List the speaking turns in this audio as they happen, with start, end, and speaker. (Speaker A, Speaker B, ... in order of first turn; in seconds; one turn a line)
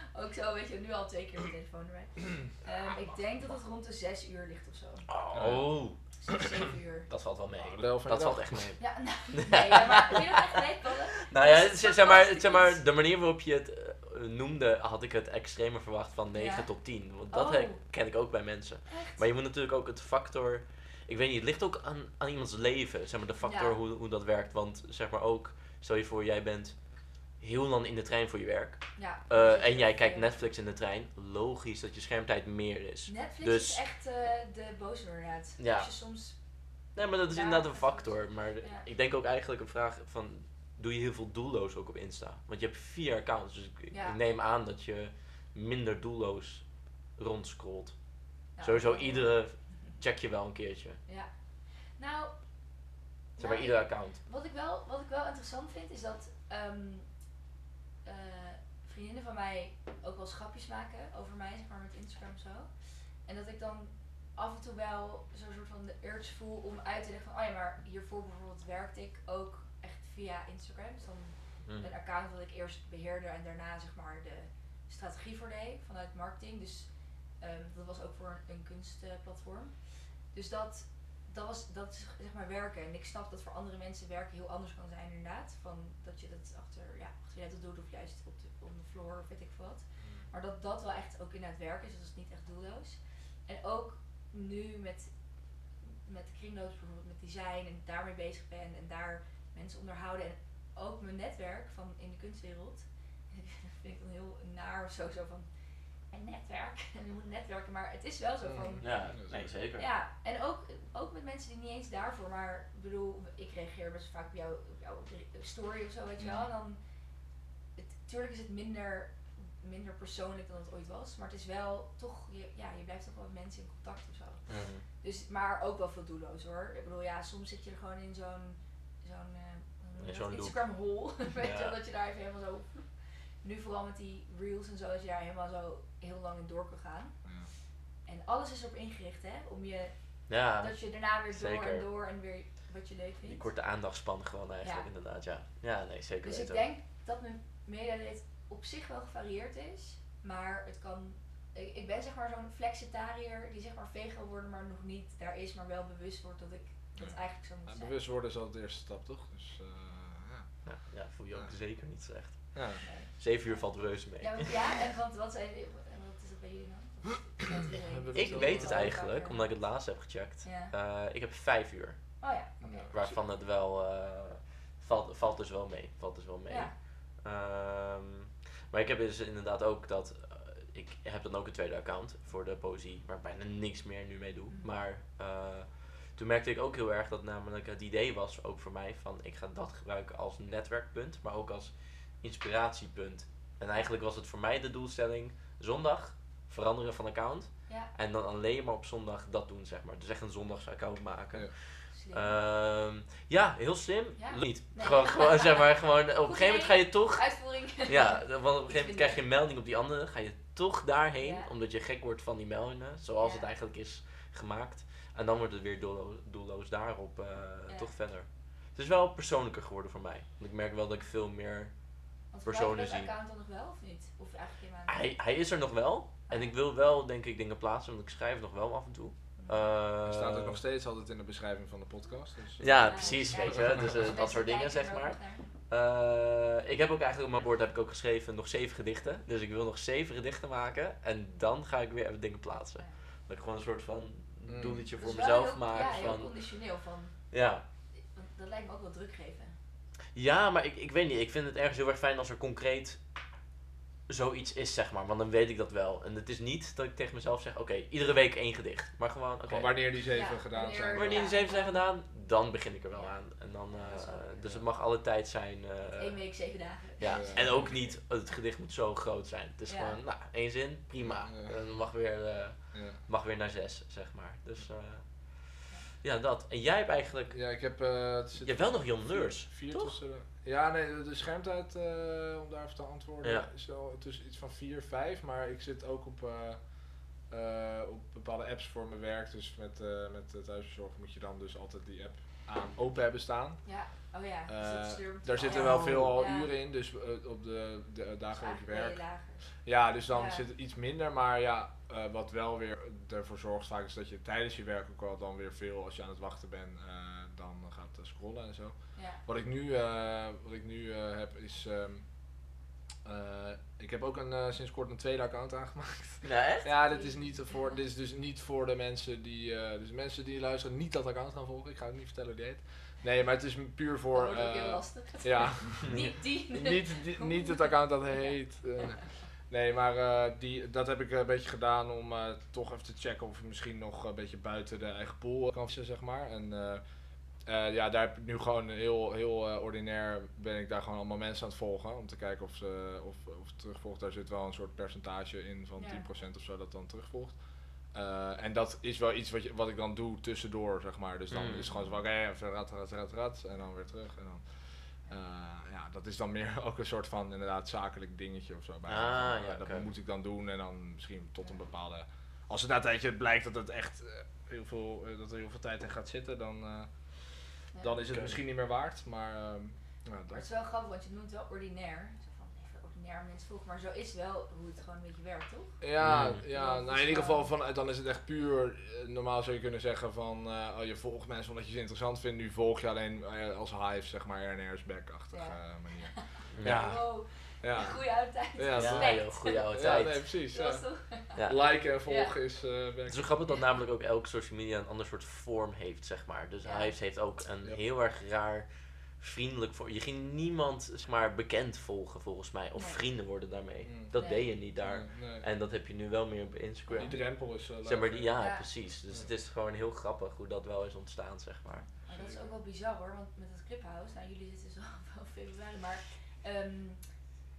Speaker A: 0.1-5.1
Speaker B: 5.1-6.0
Speaker C: 5.3-5.7
Speaker A: 6.2-7.1
Speaker B: 7.1-10.6
Speaker C: 7.6-8.7
Speaker A: 8.8-12.8
Speaker B: 11.3-33.8
Speaker A: 16.3-17.8
Speaker A: 18.9-19.2
Speaker A: 23.4-23.8
Speaker A: 28.9-30.4
Speaker A: 33.1-36.4
Speaker B: 35.6-36.0
Speaker B: 37.0-51.0
Speaker A: 37.3-38.9
Speaker A: 43.9-44.2
Speaker A: 48.6-49.4
Speaker A: 52.0-52.4
Speaker A: 53.4-57.1
Speaker B: 53.4-54.2
Speaker A: 58.0-62.7
Speaker A: 63.2-79.8
Speaker B: 71.7-71.9
Speaker A: 80.3-95.1
Speaker C: 90.0-90.2
Speaker A: 96.0-105.5
Speaker A: 106.1-108.9
Speaker C: 108.4-109.5
Speaker B: 108.8-109.9
Speaker A: 109.8-116.8
Speaker C: 116.2-116.5
Speaker A: 117.8-137.2
Speaker B: 124.5-124.8
Speaker B: 130.0-131.8
Speaker C: 137.2-137.5
Speaker A: 138.1-143.5
Speaker B: 140.3-141.9
Speaker B: 143.3-146.7
Speaker A: 146.2-158.0
Speaker C: 157.0-160.7
Speaker B: 160.6-164.8
Speaker C: 161.3-161.6
Speaker C: 162.5-162.8
Speaker A: 162.8-170.7
Speaker C: 167.6-169.0
Speaker B: 168.2-221.8
Speaker A: 172.2-172.9
Speaker C: 172.6-173.2
Speaker A: 176.5-176.7
Speaker A: 201.9-202.4
Speaker A: 204.2-209.2
Speaker A: 211.2-211.5
Speaker A: 213.2-213.5
Speaker A: 222.3-225.1
Speaker B: 222.4-223.1
Speaker B: 224.9-230.6
Speaker A: 226.3-226.5
Speaker A: 229.4-229.6
Speaker C: 230.0-233.9
Speaker B: 232.6-246.7
Speaker A: 232.6-235.5
Speaker C: 244.5-244.8
Speaker A: 245.0-247.3
Speaker B: 247.3-247.6
Speaker A: 248.0-249.6
Speaker B: 250.1-253.0
Speaker B: 254.1-260.0
Speaker C: 259.4-261.4
Speaker A: 260.1-261.8
Speaker B: 260.9-277.6
Speaker A: 262.9-264.6
Speaker A: 266.0-267.7
Speaker C: 267.1-267.6
Speaker A: 269.7-270.0
Speaker C: 271.0-271.6
Speaker C: 272.7-273.0
Speaker C: 277.3-293.8
Speaker B: 278.4-280.0
Speaker B: 283.2-283.5
Speaker A: 293.6-296.5
Speaker C: 294.5-312.5
Speaker B: 295.4-296.2
Speaker A: 298.3-299.5
Speaker A: 300.1-300.4
Speaker A: 308.9-309.2
Speaker C: 313.0-336.8
Speaker B: 316.2-316.7
Speaker A: 316.9-317.8
Speaker A: 324.1-328.4
Speaker C: 337.4-370.4
Speaker A: 345.8-346.1
Speaker B: 351.3-351.7
Speaker B: 358.9-359.9
Speaker A: 367.7-368.0
Speaker B: 368.1-368.4
Speaker A: 370.3-375.8
Speaker C: 375.8-390.9
Speaker B: 376.0-376.4
Speaker A: 376.5-377.6
Speaker A: 385.3-391.4
Speaker B: 386.5-386.9
Speaker B: 388.8-390.2
Speaker B: 391.4-391.6
Speaker C: 391.4-393.4
Speaker A: 392.1-392.4
Speaker B: 393.1-411.9
Speaker A: 396.6-396.9
Speaker A: 402.8-403.0
Speaker C: 403.8-405.4
Speaker A: 404.1-404.5
Speaker A: 406.9-407.2
Speaker C: 406.9-408.4
Speaker A: 408.4-408.7
Speaker A: 411.9-417.2
Speaker C: 412.1-412.5